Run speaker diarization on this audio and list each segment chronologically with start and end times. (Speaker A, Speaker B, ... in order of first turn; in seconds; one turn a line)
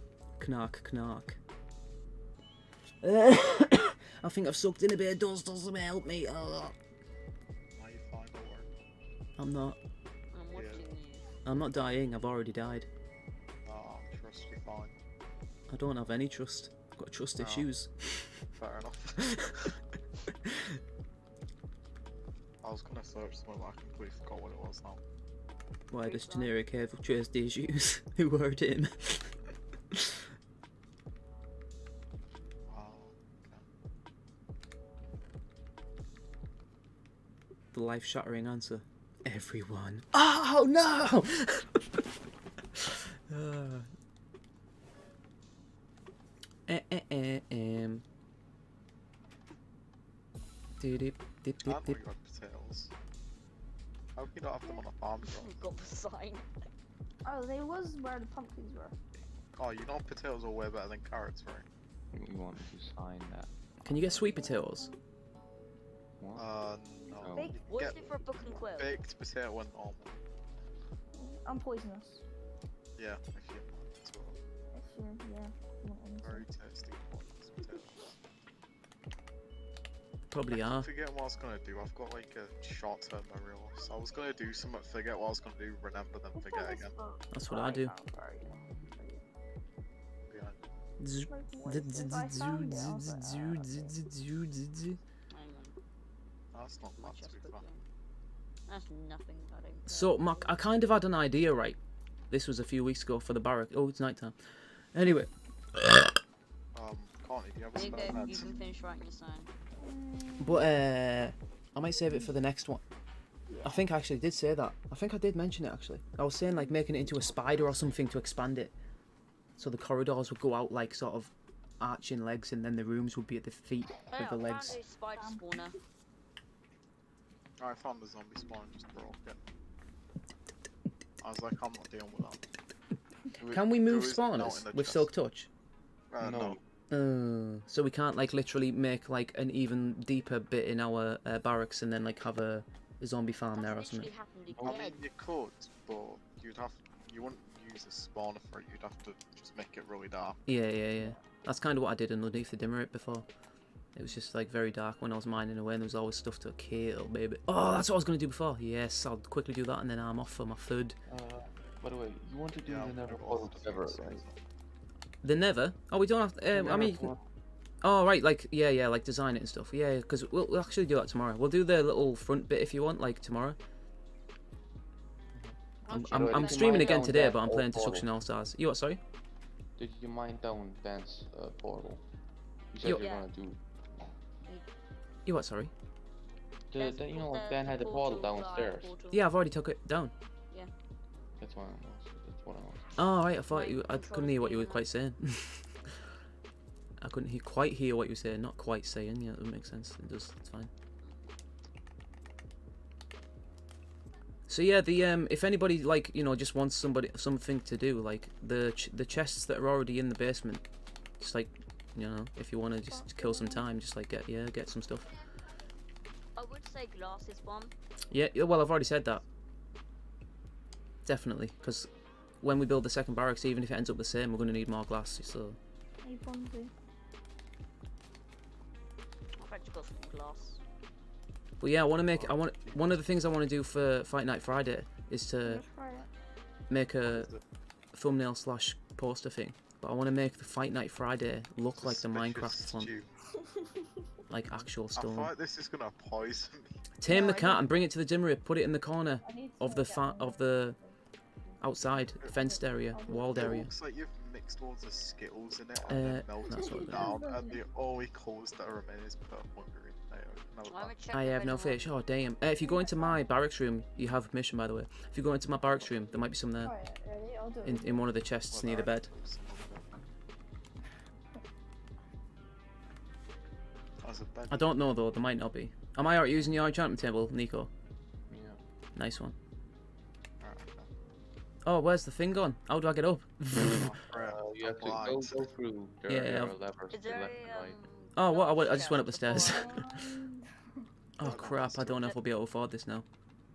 Speaker A: 0.4-1.4
Speaker A: 3.0-6.7
Speaker B: 7.8-8.7
Speaker A: 9.4-9.8
Speaker C: 10.3-11.3
Speaker B: 10.5-10.9
Speaker A: 11.4-12.9
Speaker B: 13.6-14.9
Speaker A: 15.7-17.9
Speaker B: 17.4-17.7
Speaker B: 18.5-19.6
Speaker A: 19.4-19.7
Speaker A: 20.4-20.7
Speaker B: 22.6-25.0
Speaker A: 25.9-29.3
Speaker C: 26.0-26.5
Speaker B: 32.7-33.6
Speaker A: 37.7-41.8
Speaker A: 42.7-43.9
Speaker A: 46.7-48.0
Speaker A: 50.8-52.0
Speaker B: 51.6-52.9
Speaker B: 54.1-55.7
Speaker C: 55.2-56.5
Speaker D: 57.2-59.0
Speaker B: 59.5-61.7
Speaker E: 62.1-64.4
Speaker A: 63.8-64.9
Speaker D: 64.4-65.0
Speaker E: 66.2-66.5
Speaker B: 66.3-70.2
Speaker E: 67.2-67.6
Speaker D: 67.2-67.6
Speaker C: 67.7-69.0
Speaker D: 71.1-72.2
Speaker B: 73.0-74.4
Speaker D: 74.7-76.5
Speaker B: 76.2-78.2
Speaker A: 80.3-80.9
Speaker B: 80.5-86.9
Speaker D: 86.3-89.2
Speaker A: 87.3-87.9
Speaker E: 88.5-88.9
Speaker B: 90.3-90.6
Speaker A: 91.0-95.0
Speaker D: 91.3-94.0
Speaker C: 95.3-95.8
Speaker B: 96.5-97.7
Speaker C: 97.0-97.8
Speaker C: 98.7-100.5
Speaker A: 99.9-101.8
Speaker A: 102.3-104.3
Speaker A: 104.9-106.1
Speaker B: 106.7-108.5
Speaker C: 107.7-109.5
Speaker D: 108.0-108.4
Speaker D: 109.8-110.7
Speaker A: 110.4-112.8
Speaker D: 112.1-112.3
Speaker D: 113.5-113.8
Speaker A: 113.6-118.7
Speaker D: 116.5-117.5
Speaker A: 119.6-124.8
Speaker C: 124.1-125.8
Speaker D: 125.1-125.7
Speaker B: 127.6-129.4
Speaker B: 131.2-132.5
Speaker B: 133.4-135.1
Speaker A: 133.5-135.5
Speaker B: 136.1-136.6
Speaker E: 136.2-136.6
Speaker A: 136.9-144.1
Speaker C: 143.5-145.0
Speaker E: 144.5-144.9
Speaker B: 144.6-150.4
Speaker A: 150.5-153.3
Speaker A: 153.9-160.9
Speaker E: 161.1-164.2
Speaker B: 162.6-164.4
Speaker A: 165.2-167.1
Speaker E: 166.5-167.2
Speaker A: 167.8-173.6
Speaker E: 175.3-178.1
Speaker C: 175.8-177.2
Speaker A: 175.9-179.0
Speaker E: 179.8-182.1
Speaker E: 182.7-184.2
Speaker C: 182.8-183.3
Speaker A: 185.2-185.7
Speaker E: 186.7-188.9
Speaker C: 186.7-189.2
Speaker A: 189.1-190.1
Speaker E: 191.4-193.0
Speaker A: 193.0-195.7
Speaker C: 193.5-194.9
Speaker A: 197.0-200.7
Speaker C: 201.0-201.3
Speaker A: 204.5-210.6
Speaker A: 211.2-215.1
Speaker D: 212.9-213.7
Speaker C: 216.3-217.7
Speaker A: 218.1-219.2
Speaker A: 221.1-221.9
Speaker A: 222.4-225.6
Speaker D: 226.0-226.7
Speaker C: 229.4-230.6
Speaker A: 231.6-235.6
Speaker B: 232.1-232.9
Speaker D: 235.4-236.1
Speaker A: 236.7-237.3
Speaker B: 237.0-237.4
Speaker A: 237.9-242.9
Speaker B: 241.8-243.1
Speaker A: 244.3-245.3
Speaker B: 244.9-246.7
Speaker A: 247.0-250.8
Speaker D: 247.1-247.7
Speaker D: 249.2-251.0
Speaker A: 251.6-253.7
Speaker D: 252.3-253.6
Speaker B: 253.3-261.0
Speaker A: 255.9-257.2
Speaker D: 256.7-257.6
Speaker C: 260.7-261.9
Speaker A: 261.1-266.7
Speaker D: 262.6-263.3
Speaker D: 266.6-268.1
Speaker A: 267.6-269.1
Speaker B: 268.5-269.9
Speaker B: 274.0-274.7
Speaker A: 274.5-277.7
Speaker E: 278.3-278.6
Speaker A: 278.9-279.3
Speaker B: 280.4-280.9
Speaker A: 281.6-283.9
Speaker B: 283.6-285.5
Speaker E: 283.7-287.8
Speaker A: 286.1-286.5
Speaker C: 286.9-289.8
Speaker A: 288.1-289.9
Speaker D: 289.3-290.4
Speaker A: 291.2-293.1
Speaker B: 291.2-292.1